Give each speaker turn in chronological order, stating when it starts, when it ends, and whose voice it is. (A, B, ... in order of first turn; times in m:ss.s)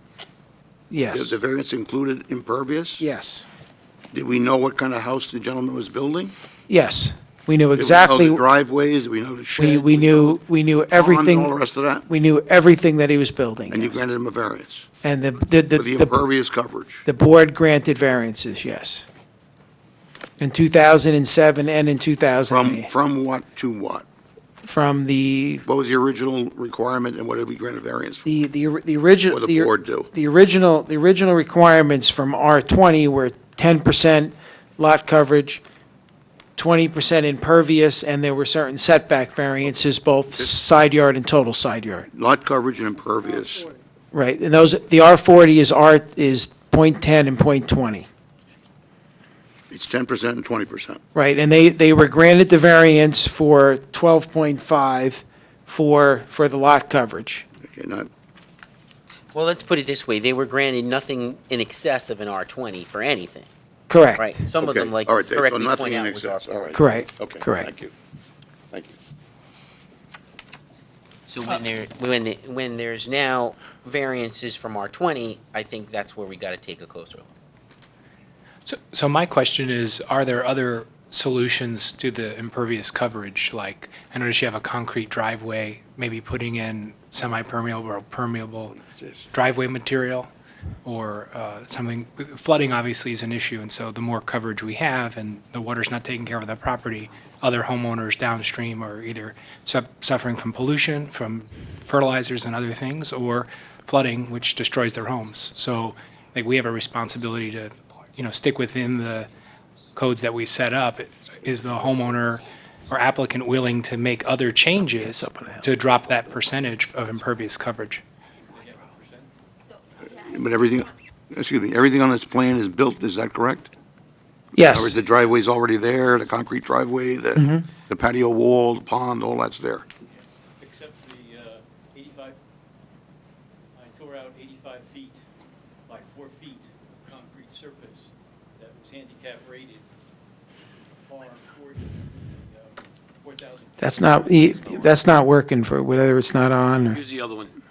0:00.9-0:01.4 A
0:01.1-0:03.0 B
0:03.0-0:03.4 A
0:04.1-0:06.3 B
0:06.7-0:08.4 A
0:07.7-0:10.4 B
0:09.6-0:11.6 A
0:10.9-0:12.1 B
0:12.1-0:14.0 A
0:13.7-0:14.9 B
0:15.0-0:16.2 A
0:15.7-0:17.0 B
0:17.0-0:19.0 A
0:20.4-0:22.9 A
0:22.5-0:24.0 B
0:24.6-0:25.6 A
0:25.7-0:28.3 B
0:28.2-0:35.6 A
0:29.3-0:30.1 B
0:36.6-0:42.1 A
0:40.3-0:40.6 B
0:42.1-0:43.7 B
0:44.1-0:48.1 A
0:49.7-0:51.0 B
0:51.1-0:57.4 A
0:57.7-0:58.1 B
0:59.3-1:03.5 C
1:03.9-1:04.4 A
1:04.2-1:06.6 C
1:04.6-1:07.9 B
1:06.7-1:07.7 A
1:11.3-1:17.3 C
1:18.6-1:28.8 D
1:28.8-1:29.3 B
1:29.3-1:30.3 D
1:30.8-1:49.3 D
1:49.9-1:58.0 D
1:54.9-1:55.6 A
1:58.5-1:59.3 E
2:00.1-2:03.7 B
2:04.5-2:04.9 A
2:04.6-2:09.8 B
2:07.3-2:07.7 A
2:10.1-2:12.4 E
2:13.8-2:15.2 E
2:15.9-2:19.8 E
2:21.0-2:25.0 E
2:23.8-2:27.0 A